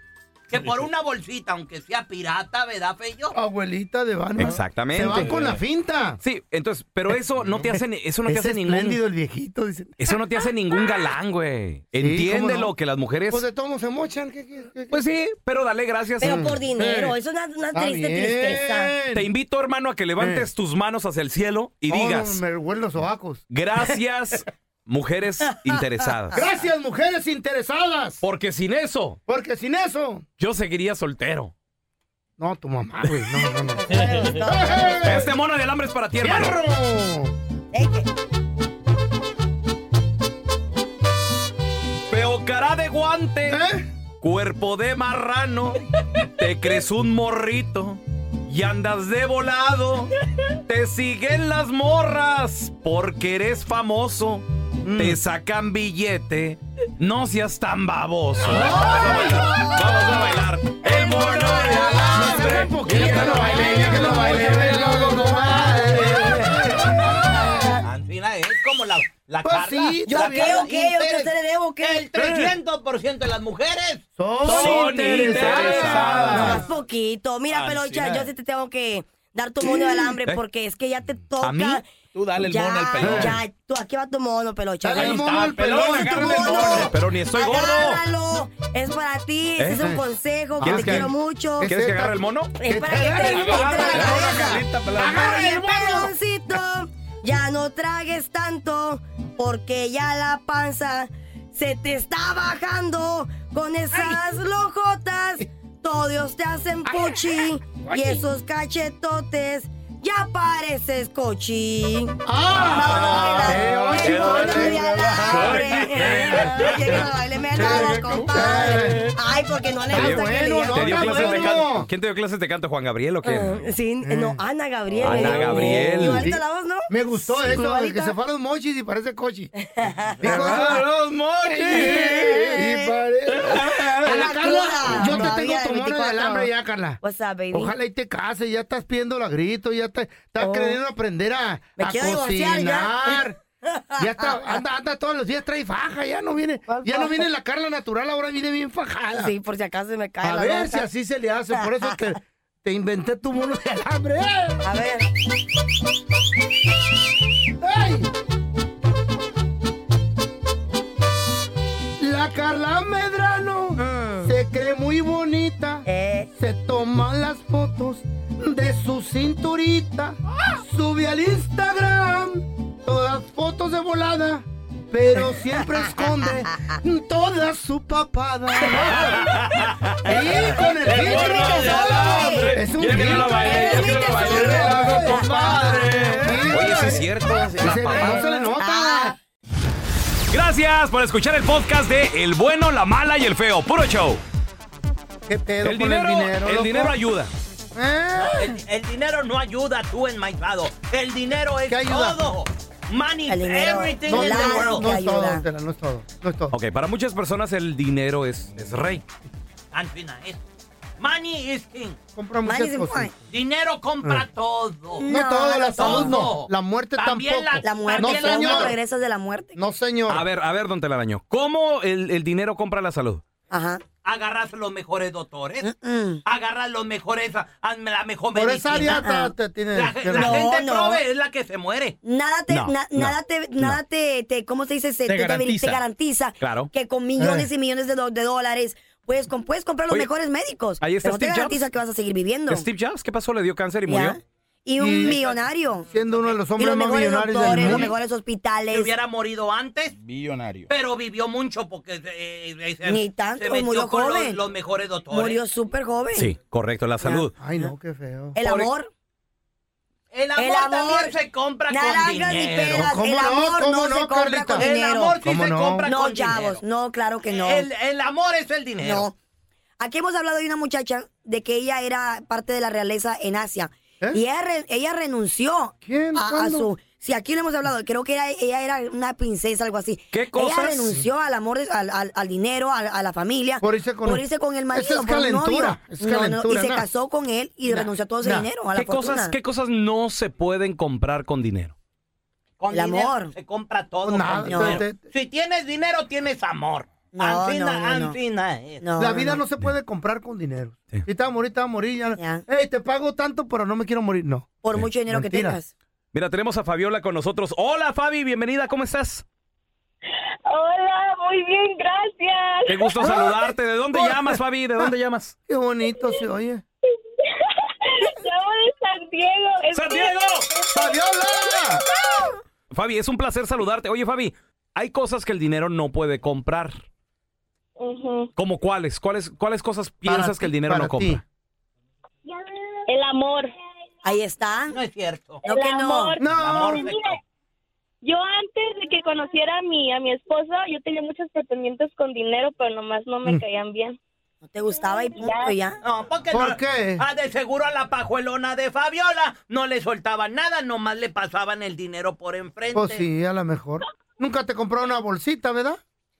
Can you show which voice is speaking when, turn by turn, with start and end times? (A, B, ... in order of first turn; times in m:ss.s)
0:00.5-0:03.3 A
0:03.3-0:06.2 B
0:04.4-0:05.4 C
0:06.2-0:09.0 C
0:07.4-0:10.0 B
0:10.0-0:13.4 C
0:12.0-0:12.7 B
0:13.3-0:15.0 B
0:14.9-0:16.4 C
0:16.2-0:17.2 B
0:16.4-0:18.7 D
0:17.7-0:19.2 B
0:19.1-0:22.4 C
0:20.2-0:20.5 B
0:21.9-0:23.4 B
0:23.5-0:26.4 C
0:26.3-0:28.2 B
0:28.2-0:29.2 C
0:29.3-0:30.2 B
0:30.4-0:31.5 C
0:32.4-0:35.3 B
0:33.8-0:35.2 D
0:35.0-0:36.6 C
0:36.2-0:37.3 B
0:37.7-0:38.0 D
0:42.1-0:43.6 C
0:43.5-0:43.8 B
0:44.2-0:45.8 C
0:46.3-0:50.1 C
0:50.7-0:54.4 C
0:54.8-0:55.2 B
0:54.9-1:05.2 C
0:58.4-1:00.1 B
1:00.9-1:02.5 D
1:01.6-1:07.7 B
1:07.8-1:16.4 A
1:09.4-1:10.7 B
1:10.1-1:12.3 D
1:12.2-1:12.5 B
1:14.2-1:16.6 B
1:14.4-1:16.6 C
1:16.0-1:21.8 D
1:17.6-1:18.2 A
1:19.7-1:20.0 B
1:21.4-1:21.8 C
1:22.2-1:23.2 A
1:22.4-1:31.7 D
1:22.4-1:23.4 C
1:23.0-1:23.4 B
1:24.8-1:26.9 B
1:25.0-1:28.0 C
1:25.1-1:26.2 A
1:29.6-1:29.9 C
1:29.8-1:30.0 B
1:30.6-1:34.2 B
1:30.6-1:31.1 C
1:31.6-1:32.5 C
1:32.6-2:01.5 D
1:33.3-1:35.4 C
1:35.0-1:36.1 B
1:47.8-1:48.2 B
1:52.2-1:55.8 B
1:52.5-1:56.2 C
1:56.4-1:59.1 B
1:59.9-2:01.9 B
1:59.9-2:03.6 C
2:04.0-2:04.4 B
2:04.8-2:06.8 D
2:05.0-2:06.3 C
2:05.1-2:09.5 B
2:07.4-2:08.1 D
2:10.2-2:10.8 D
2:10.2-2:10.8 B
2:10.3-2:11.8 C
2:11.4-2:17.0 B
2:11.7-2:12.9 D
2:13.8-2:16.5 D
2:17.0-2:17.7 D
2:17.5-2:23.4 B
2:20.4-2:20.8 D
2:21.8-2:23.3 D
2:23.9-2:24.6 D
2:24.0-2:29.3 B
2:26.7-2:27.3 D
2:29.1-2:30.8 D
2:30.2-2:34.6 B
2:31.5-2:32.0 D
2:34.6-2:35.1 D
2:37.6-2:38.1 B
2:42.0-2:59.4 B
2:43.8-2:44.3 D
2:45.8-2:46.3 D
2:56.2-2:56.7 D
2:59.1-3:00.1 C
3:00.0-3:09.2 B
3:00.8-3:08.3 C
3:00.8-3:06.0 D
3:07.9-3:09.2 D
3:10.3-3:14.2 C
3:15.3-3:17.0 B
3:15.6-3:17.3 C
3:17.7-3:18.5 B
3:18.2-3:25.0 A
3:21.7-3:22.2 B
3:23.3-3:25.4 D
3:24.0-3:26.5 B
3:26.5-3:29.0 C
3:29.7-3:30.4 A
3:31.0-3:32.0 A
3:32.1-3:33.2 B
3:32.4-3:33.1 D
3:33.3-3:38.7 A
3:35.0-3:36.2 D
3:35.0-3:38.8 B
3:37.6-3:39.6 D
3:39.6-3:40.2 B
3:40.1-3:43.2 C
3:43.5-3:43.8 D
3:44.0-3:45.7 A
3:45.6-3:46.2 D
3:46.2-3:49.2 A
3:48.3-3:50.5 B
3:48.8-3:49.3 D
3:49.7-3:52.0 A
3:50.1-3:51.0 D
3:52.0-4:02.6 D
3:52.5-3:53.8 C
3:55.1-3:55.8 C
3:56.4-3:56.7 C
3:57.2-3:57.5 B
4:00.8-4:01.6 C
4:02.5-4:04.2 C
4:03.9-4:05.9 D
4:04.8-4:05.2 B
4:05.9-4:07.9 B
4:06.6-4:08.9 D
4:07.4-4:07.9 A
4:08.7-4:09.9 A
4:10.7-4:15.4 A
4:12.8-4:14.4 D
4:15.1-4:16.3 D
4:16.1-4:17.3 C
4:17.0-4:17.6 D
4:17.4-4:18.4 B
4:18.3-4:18.9 D
4:20.1-4:23.0 A
4:20.4-4:21.1 D
4:21.7-4:25.2 D
4:22.7-4:24.7 B
4:24.6-4:26.6 A
4:25.2-4:25.9 B
4:25.8-4:27.6 D
4:27.2-4:29.1 A
4:28.8-4:29.1 D
4:29.8-4:49.4 D
4:35.8-4:36.7 B
4:40.1-4:41.0 C
4:43.6-4:46.8 B
4:47.7-4:48.5 B
4:48.7-4:51.7 C
4:52.6-4:58.9 A
4:52.7-4:53.3 D
4:54.0-4:55.0 B
4:54.4-4:54.8 D
4:57.1-4:58.1 D
4:58.8-4:59.4 D
4:59.0-5:04.5 B
5:02.2-5:02.4 D
5:04.6-5:05.7 D
5:05.1-5:05.6 B
5:06.1-5:09.2 C
5:10.5-5:12.7 E
5:12.7-5:15.3 C
5:13.0-5:13.3 B
5:14.0-5:14.9 B
5:15.5-5:16.6 B
5:18.2-5:20.1 E
5:19.7-5:20.4 C
5:20.7-5:21.8 B
5:22.7-5:26.8 C
5:27.8-5:28.3 E
5:28.4-5:31.2 C
5:30.0-5:31.2 B
5:32.9-5:33.5 E
5:34.0-5:34.8 D
5:34.7-5:35.4 A
5:35.4-5:36.2 D
5:35.6-5:36.0 E
5:36.2-5:36.8 B
5:36.3-5:37.2 A
5:38.0-5:44.0 E
5:44.4-5:45.8 D
5:45.8-5:53.0 A
5:46.3-5:47.0 B
5:52.7-5:55.8 B